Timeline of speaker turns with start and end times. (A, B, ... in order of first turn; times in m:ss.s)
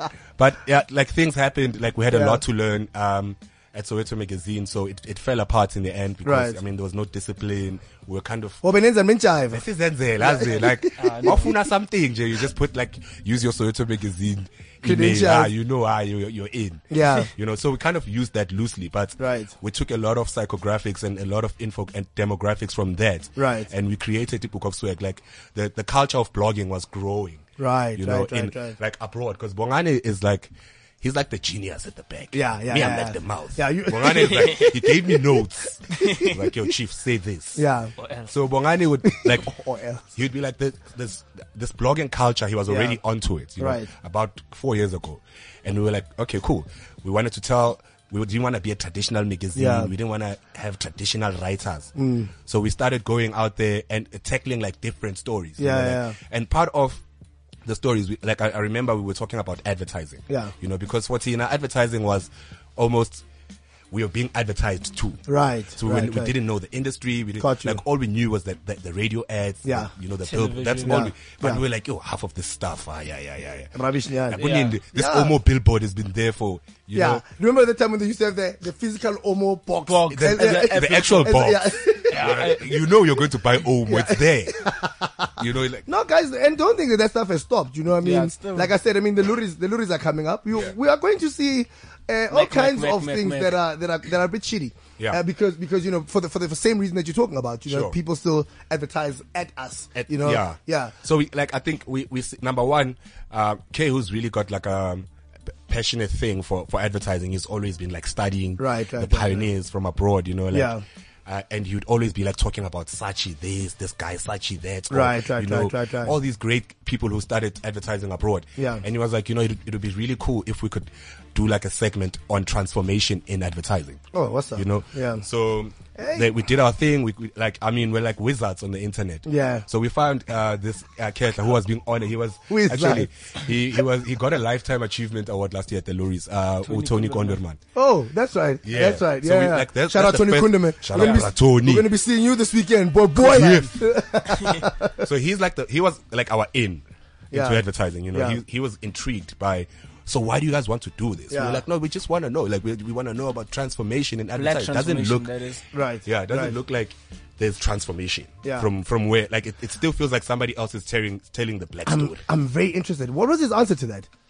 0:00.4-0:08.6 A
0:02.1-0:02.4 B
0:06.2-0:06.6 B
0:08.6-0:09.6 B
0:09.5-0:37.6 A
0:10.2-0:11.4 B
0:11.0-0:11.5 C
0:14.8-0:15.5 B
0:16.9-0:17.3 B
0:19.2-0:19.5 B
0:23.4-0:23.7 B
0:27.6-0:28.8 B
0:32.3-0:34.8 B
0:34.4-0:34.7 C
0:36.0-0:36.3 C
0:37.6-0:37.9 B
0:38.0-0:38.3 C
0:38.2-0:39.5 A
0:39.1-0:40.0 B
0:40.1-0:51.9 A
0:42.7-0:43.0 B
0:43.6-0:43.9 B
0:49.6-0:49.9 B
0:52.0-0:52.3 B
0:52.4-0:57.0 A
0:55.6-0:56.2 B
0:57.6-1:03.2 A
1:03.9-1:17.2 A
1:05.3-1:06.3 B
1:07.4-1:07.8 B
1:09.6-1:09.9 B
1:10.2-1:11.1 C
1:10.8-1:11.6 B
1:13.8-1:15.4 B
1:14.4-1:14.8 C
1:17.0-1:22.4 B
1:19.9-1:21.4 C
1:20.1-1:24.6 A
1:22.1-1:22.8 C
1:23.8-1:25.3 B
1:25.4-1:25.9 A
1:25.9-1:40.9 B
1:28.0-1:28.7 C
1:32.3-1:33.6 C
1:37.7-1:38.0 A
1:40.0-1:45.1 A
1:45.7-2:04.0 A
1:48.6-1:49.5 B
1:50.5-1:50.8 B
1:54.9-1:56.2 B
1:58.6-1:58.8 B
2:04.1-2:05.2 B
2:04.6-2:17.6 A
2:06.0-2:06.3 B
2:09.3-2:09.6 B
2:12.5-2:13.1 B
2:16.6-2:17.4 C
2:17.8-2:25.0 B
2:18.6-2:21.9 A
2:21.0-2:21.2 C
2:23.2-2:23.8 A
2:25.0-2:35.3 A
2:27.3-2:28.4 B
2:31.3-2:31.6 B
2:34.4-2:35.6 C
2:35.7-2:36.6 B
2:36.0-2:42.2 A
2:38.4-2:38.7 B
2:41.9-2:44.1 B